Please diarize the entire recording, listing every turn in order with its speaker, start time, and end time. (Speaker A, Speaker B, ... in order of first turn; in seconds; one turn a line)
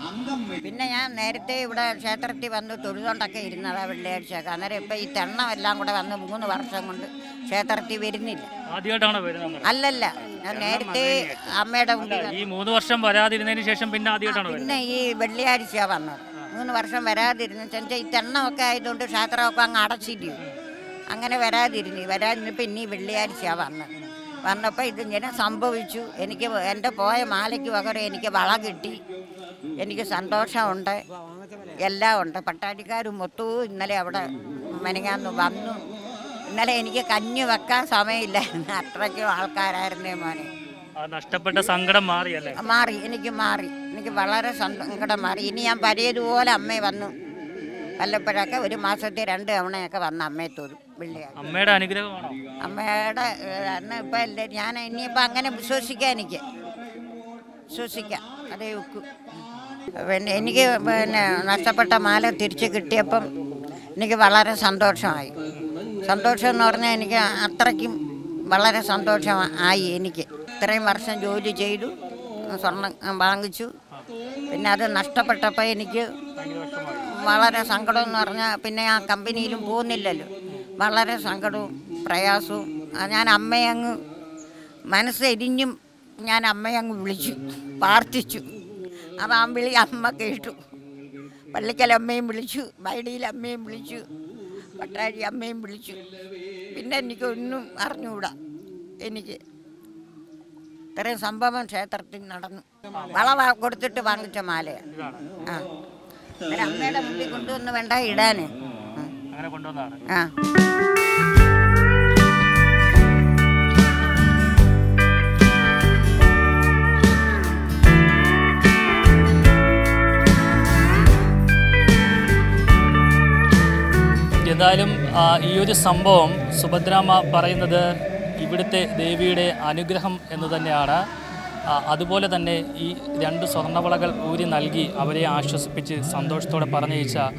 Speaker A: 0.5-8.5
Speaker B: 8.7-9.7
Speaker A: 9.6-12.5
Speaker B: 10.5-14.7
Speaker A: 14.3-20.4
Speaker A: 21.1-23.9
Speaker A: 24.4-29.0
Speaker A: 29.8-30.9
Speaker A: 31.8-35.8
Speaker A: 36.5-40.5
Speaker B: 41.0-42.6
Speaker A: 42.5-47.1
Speaker A: 48.0-51.4
Speaker B: 51.4-52.4
Speaker A: 52.6-56.4
Speaker A: 57.7-59.0
Speaker A: 60.0-63.2
Speaker A: 64.0-65.3
Speaker A: 66.0-68.0
Speaker A: 68.5-71.9
Speaker A: 72.5-73.7
Speaker A: 74.5-76.0
Speaker B: 76.4-77.0
Speaker A: 77.0-80.3
Speaker A: 80.8-83.9
Speaker A: 84.9-88.4
Speaker A: 89.2-90.6
Speaker A: 91.5-94.0
Speaker A: 94.6-96.0
Speaker A: 96.7-98.3
Speaker A: 99.0-99.4
Speaker A: 100.9-104.8
Speaker B: 104.9-105.2
Speaker A: 106.5-109.1
Speaker B: 109.3-110.0
Speaker B: 124.4-127.8
Speaker B: 128.4-131.0
Speaker B: 131.7-137.2